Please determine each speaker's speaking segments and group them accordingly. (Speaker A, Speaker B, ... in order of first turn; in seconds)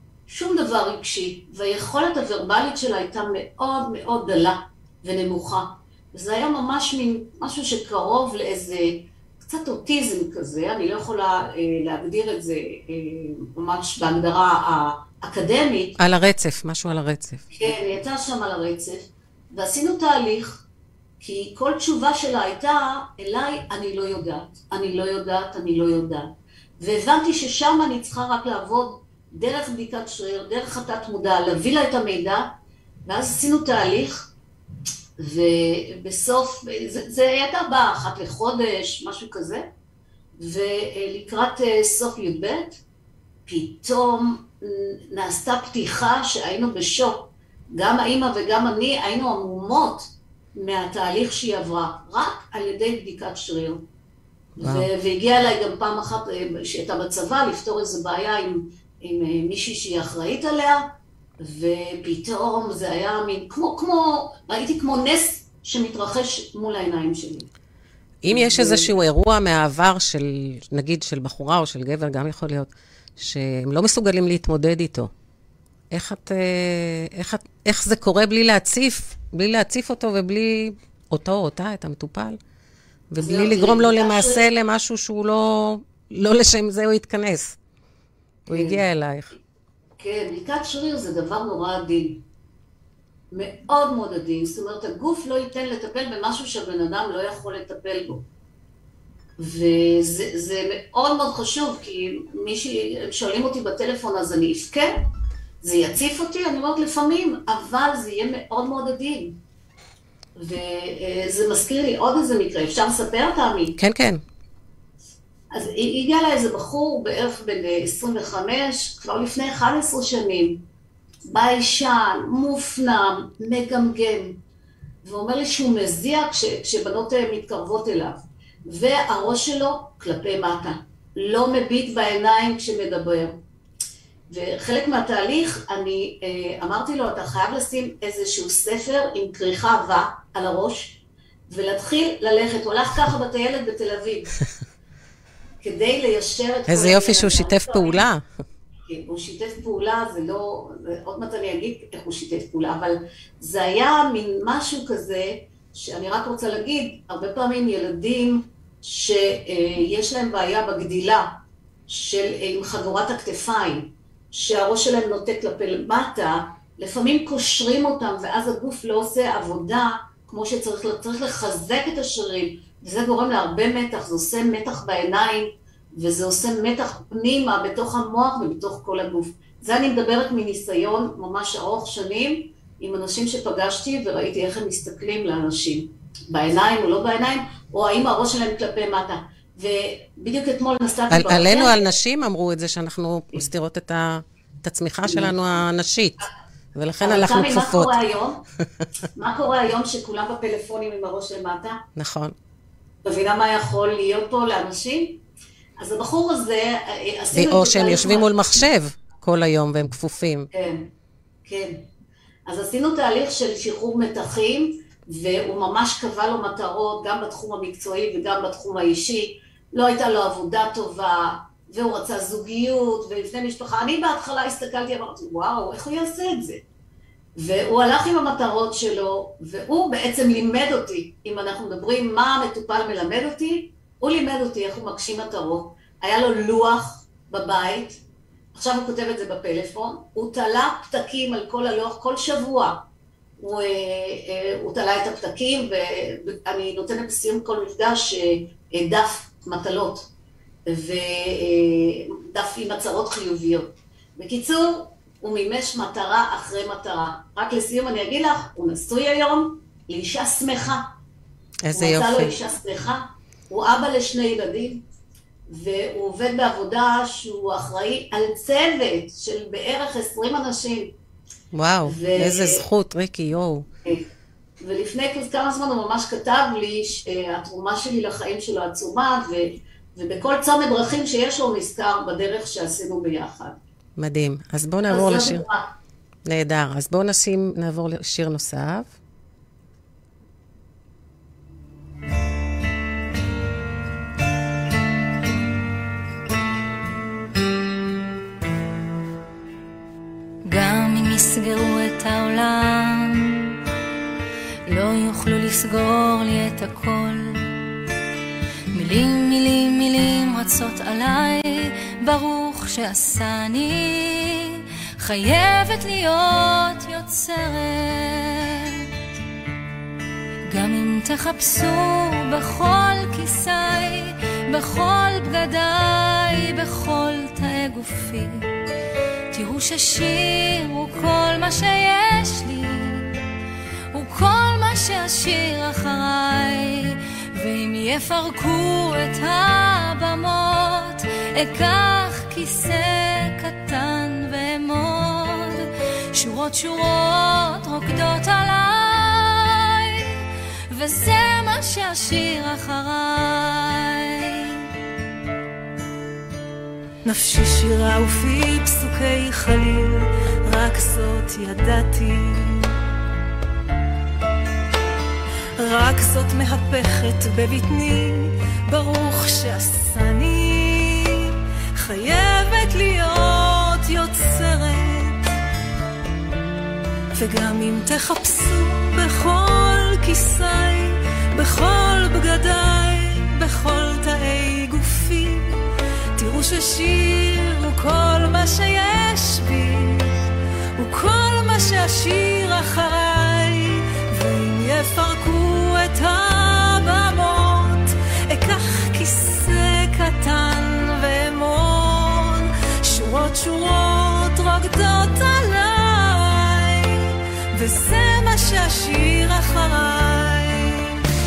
Speaker A: 0.3-15.9, 17.5-20.6, 21.2-32.5, 33.0-34.3, 35.2-39.6, 40.4-42.8, 43.5-53.8, 54.6-60.9, 61.4-67.5, 68.3-68.9, 83.2-84.5, 88.5-88.8, 90.0-92.2, 93.3-98.2, 99.4-105.0, 105.6-109.3, 110.4-113.8, 115.5-120.6, 121.2-124.4, 125.0-133.4, 134.3-144.3, 145.6-147.9, 148.9-191.8, 195.1-195.5, 197.0-198.4, 199.2-201.8, 203.0-205.2, 205.8-208.6, 210.5-210.9, 211.4-211.8, 212.5-226.6, 227.4-238.0, 238.5-242.8, 243.4-250.1, 250.7-260.8, 261.7-264.8, 265.5-270.9, 271.9-272.6, 274.6-283.6, 284.9-285.7
Speaker B: 16.0-17.4, 54.6-54.9, 68.2-75.1, 75.9-82.4, 83.1-87.6, 88.5-89.3, 113.8-114.2, 146.7-148.2, 191.1-198.0, 201.9-202.3, 207.3-210.5, 261.6-262.3, 271.5-273.7, 284.0-285.4, 286.2-288.9
Speaker C: 300.4-303.6, 304.7-307.6, 308.7-318.9, 320.5-328.5, 329.3-333.1, 333.9-350.1, 350.7-354.6
Speaker D: 357.0-362.7, 365.6-375.2, 377.1-385.6, 386.2-390.1, 390.8-411.0